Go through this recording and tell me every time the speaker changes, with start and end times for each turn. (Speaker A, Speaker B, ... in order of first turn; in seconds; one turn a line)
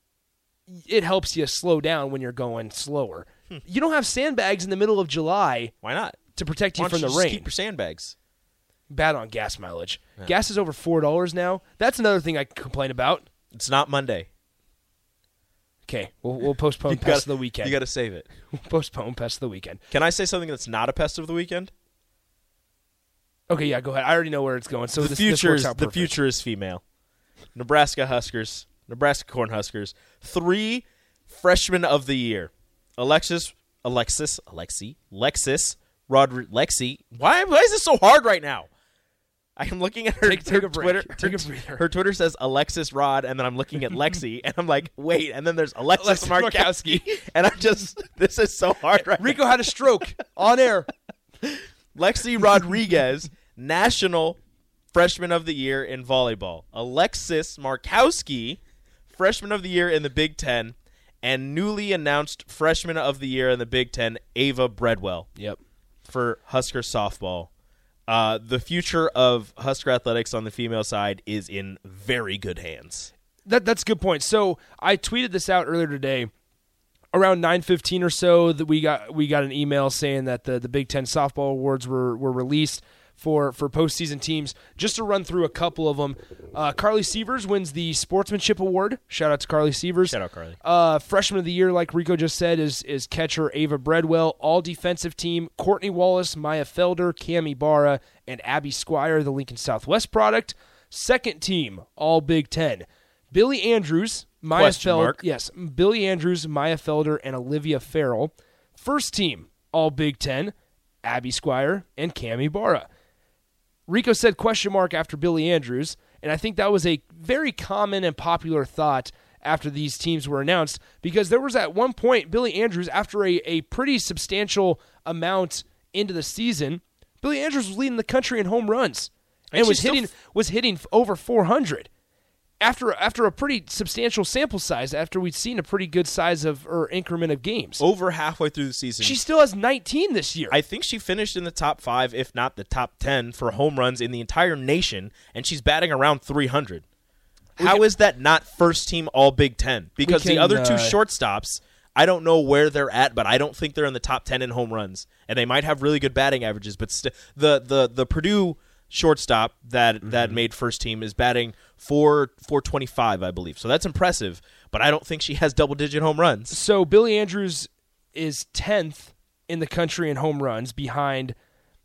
Speaker A: 0.7-5.7
Speaker B: 5.8-6.2
Speaker A: 6.3-7.5
Speaker B: 6.7-8.1
Speaker A: 8.9-13.3
Speaker B: 13.5-14.3
Speaker A: 15.8-17.8
Speaker B: 16.9-18.3
Speaker A: 18.5-19.8
Speaker B: 19.9-21.7
Speaker A: 23.5-26.1
Speaker B: 25.0-26.8
Speaker B: 27.5-38.7
Speaker B: 39.6-49.5
Speaker A: 40.2-41.9
Speaker A: 45.9-47.1
Speaker A: 49.2-50.9
Speaker B: 51.4-54.4
Speaker B: 54.9-58.6
Speaker B: 59.1-65.3
Speaker B: 66.1-67.5
Speaker B: 68.1-73.1
Speaker A: 73.4-76.3
Speaker A: 77.1-112.9
Speaker B: 90.0-90.6
Speaker B: 104.5-105.2
Speaker A: 113.9-131.9
Speaker B: 129.5-130.1
Speaker A: 132.6-137.8
Speaker B: 137.8-139.2
Speaker A: 139.0-140.6
Speaker B: 140.5-146.8
Speaker B: 147.6-166.6
Speaker A: 147.6-147.8
Speaker A: 150.0-151.0
Speaker A: 160.1-160.4
Speaker A: 166.5-171.3